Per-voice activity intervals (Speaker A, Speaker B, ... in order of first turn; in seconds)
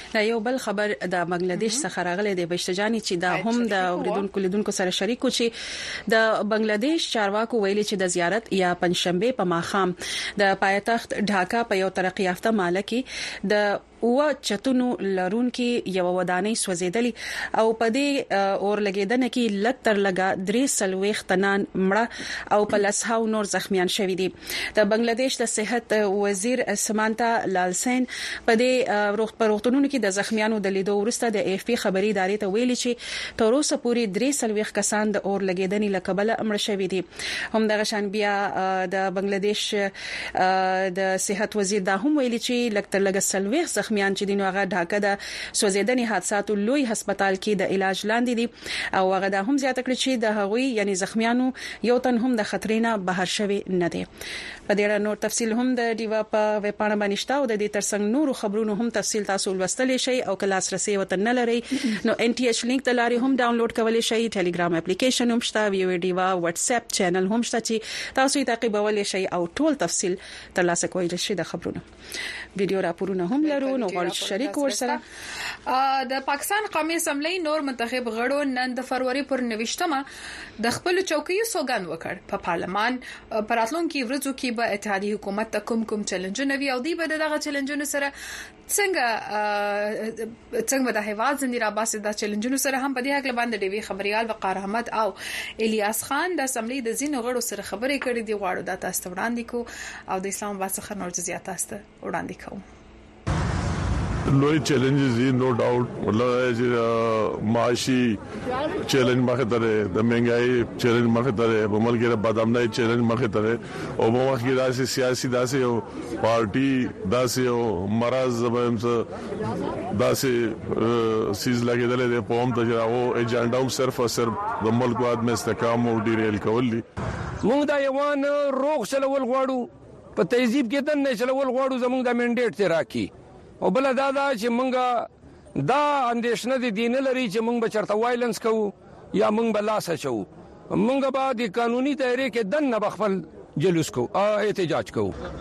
Speaker A: 0.1-5.5, 6.1-54.1, 54.7-71.8, 72.6-75.0
Speaker B: 1.6-1.9, 3.3-4.3, 73.4-75.0, 75.7-80.0, 80.6-88.1, 88.7-102.6
Speaker C: 104.3-108.2, 108.8-119.1, 119.9-126.8
Speaker D: 127.4-133.1, 133.6-145.1